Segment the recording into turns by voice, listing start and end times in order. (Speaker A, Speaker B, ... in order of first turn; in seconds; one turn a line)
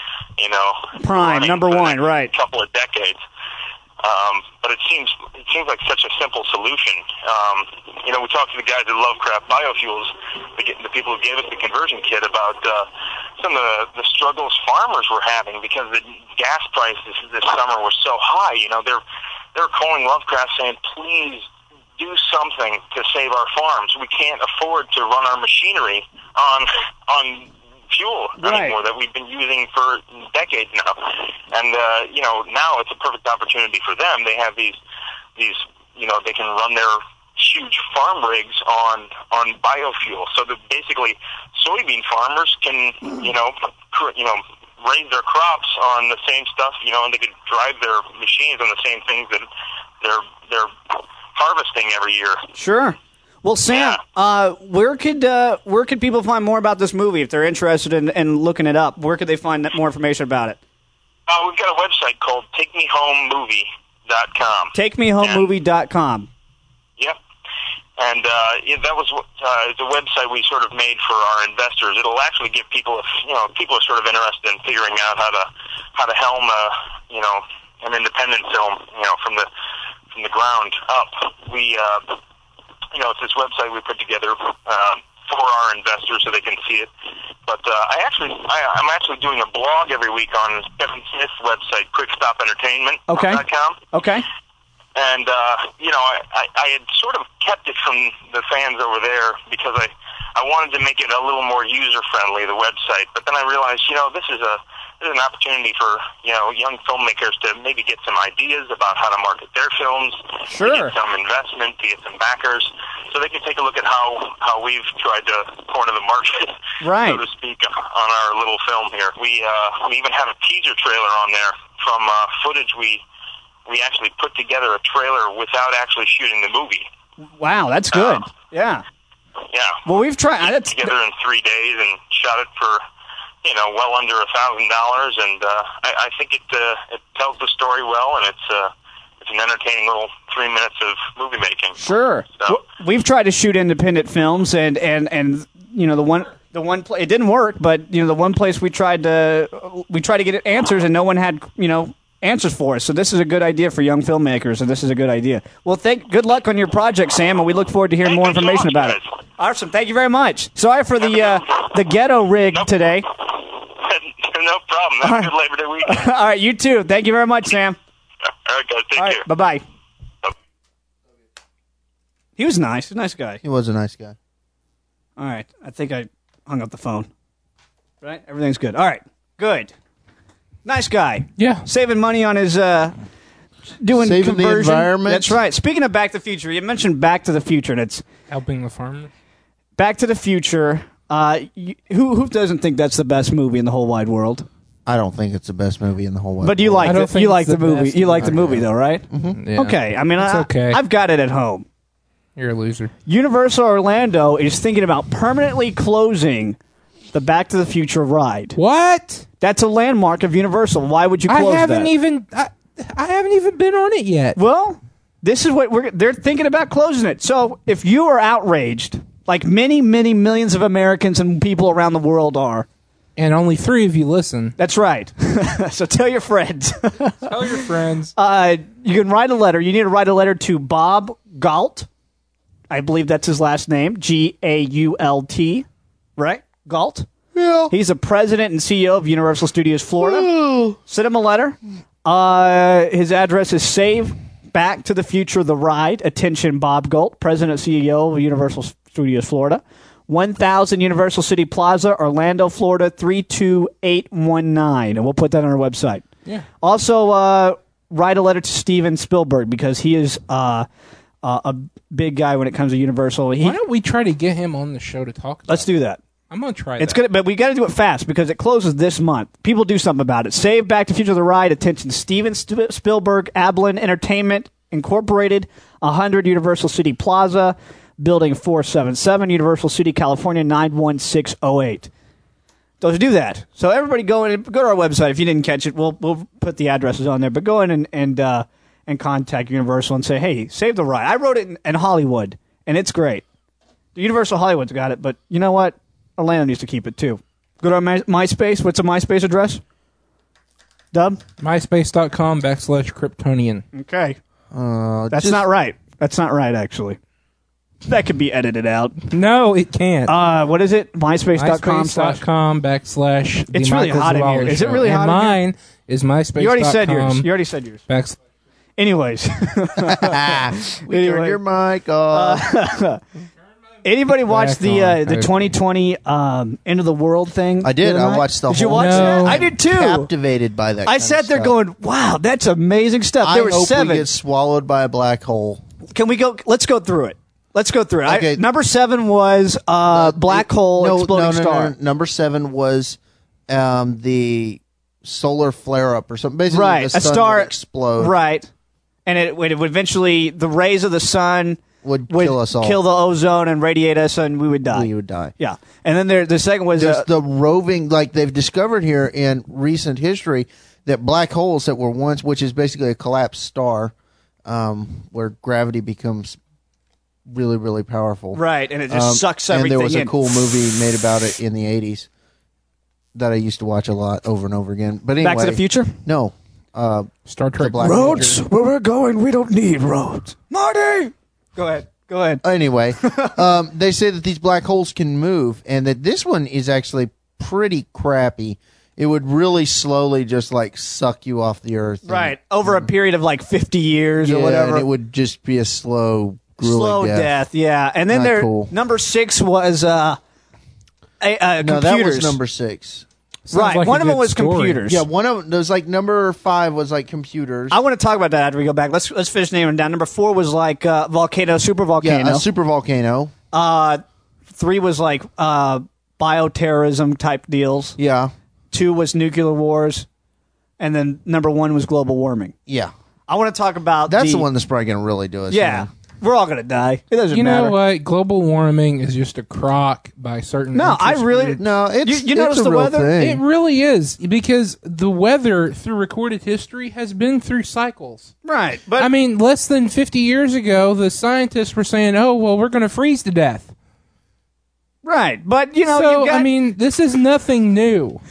Speaker A: 0.4-3.2
Speaker B: 1.0-2.3
Speaker A: 4.0-12.9
Speaker A: 13.4-19.0
Speaker A: 19.5-21.4
Speaker A: 22.0-34.8
Speaker B: 28.4-28.8
Speaker A: 35.4-49.5
Speaker A: 50.0-52.4
Speaker B: 52.5-60.6
Speaker A: 53.7-54.0
Speaker A: 61.3-65.5
Speaker B: 64.7-66.3
Speaker A: 68.0-79.5
Speaker A: 80.1-82.2
Speaker A: 82.9-86.9
Speaker A: 87.5-93.8
Speaker B: 93.1-94.2
Speaker A: 95.0-123.0
Speaker B: 110.5-110.9
Speaker B: 116.8-117.2
Speaker A: 123.7-126.8
Speaker B: 127.4-128.8
Speaker A: 127.9-128.2
Speaker A: 129.5-129.8
Speaker B: 129.8-130.9
Speaker A: 130.4-132.8
Speaker A: 133.4-141.8
Speaker B: 141.8-163.0
Speaker A: 158.0-159.1
Speaker A: 161.1-161.4
Speaker A: 162.5-166.1
Speaker B: 165.0-165.3
Speaker B: 165.8-167.8
Speaker A: 168.4-169.2
Speaker B: 168.9-169.6
Speaker B: 172.3-173.4
Speaker C: 173.4-174.2
Speaker B: 175.2-177.1
Speaker B: 178.0-179.7
Speaker B: 180.6-183.0
Speaker D: 181.4-181.6
Speaker B: 183.8-188.0
Speaker C: 183.9-185.4
Speaker D: 188.3-189.1
Speaker B: 189.8-194.5
Speaker C: 194.8-197.0
Speaker B: 196.4-201.7
Speaker D: 196.8-198.3
Speaker C: 198.2-199.4
Speaker D: 199.3-200.8
Speaker D: 202.3-202.9
Speaker B: 203.1-206.6
Speaker B: 207.1-208.6
Speaker D: 208.6-209.2
Speaker B: 209.4-211.9
Speaker D: 211.3-214.4
Speaker B: 214.3-222.7
Speaker D: 223.2-224.5
Speaker B: 224.6-227.3
Speaker D: 227.2-228.1
Speaker B: 228.1-231.9
Speaker B: 232.7-235.7
Speaker B: 236.2-237.1
Speaker C: 237.3-237.7
Speaker B: 237.7-256.0
Speaker C: 240.0-240.8
Speaker B: 256.6-260.7
Speaker B: 261.2-263.6
Speaker D: 263.4-265.7
Speaker B: 265.5-266.0
Speaker D: 266.3-267.0
Speaker B: 266.8-281.9
Speaker B: 282.8-293.2
Speaker B: 293.9-299.6
Speaker B: 300.9-301.2
Speaker D: 301.4-303.6
Speaker B: 303.7-304.2
Speaker C: 304.5-305.5
Speaker B: 305.1-307.0
Speaker B: 307.8-309.0
Speaker D: 309.1-310.1
Speaker B: 310.1-312.2
Speaker D: 311.3-317.3
Speaker B: 313.5-315.4
Speaker B: 316.4-317.8
Speaker D: 317.9-318.2
Speaker B: 318.8-321.4
Speaker C: 319.9-322.5
Speaker B: 322.1-323.0
Speaker B: 323.8-330.1
Speaker D: 324.2-325.5
Speaker C: 327.6-331.6
Speaker D: 328.7-329.4
Speaker B: 330.9-334.1
Speaker C: 333.2-335.6
Speaker B: 335.9-341.7
Speaker C: 338.1-338.4
Speaker C: 339.9-348.1
Speaker B: 346.5-348.5
Speaker B: 349.1-357.1
Speaker C: 351.8-352.8
Speaker C: 354.7-355.3
Speaker C: 356.8-363.9
Speaker C: 364.4-366.4
Speaker C: 367.3-372.1
Speaker B: 368.3-370.2
Speaker C: 373.1-378.3
Speaker B: 375.2-375.9
Speaker D: 377.3-378.4
Speaker B: 377.8-382.4
Speaker C: 382.4-392.9
Speaker B: 383.0-383.3
Speaker B: 392.1-394.9
Speaker C: 394.2-397.3
Speaker B: 396.6-400.2
Speaker C: 398.1-398.7
Speaker B: 401.2-402.4
Speaker C: 401.6-403.0
Speaker D: 403.5-404.8
Speaker B: 403.5-405.0
Speaker C: 404.9-407.8
Speaker B: 407.7-412.4
Speaker C: 412.0-413.3
Speaker B: 413.5-417.9
Speaker C: 418.0-418.3
Speaker B: 418.7-420.1
Speaker B: 420.8-422.5
Speaker C: 422.7-422.9
Speaker B: 423.3-424.5
Speaker C: 424.1-425.9
Speaker B: 425.5-427.8
Speaker D: 427.3-431.6
Speaker B: 430.7-433.1
Speaker C: 431.6-433.4
Speaker D: 433.2-438.3
Speaker B: 438.4-439.1
Speaker D: 439.0-443.7
Speaker B: 445.0-446.5
Speaker D: 445.8-448.2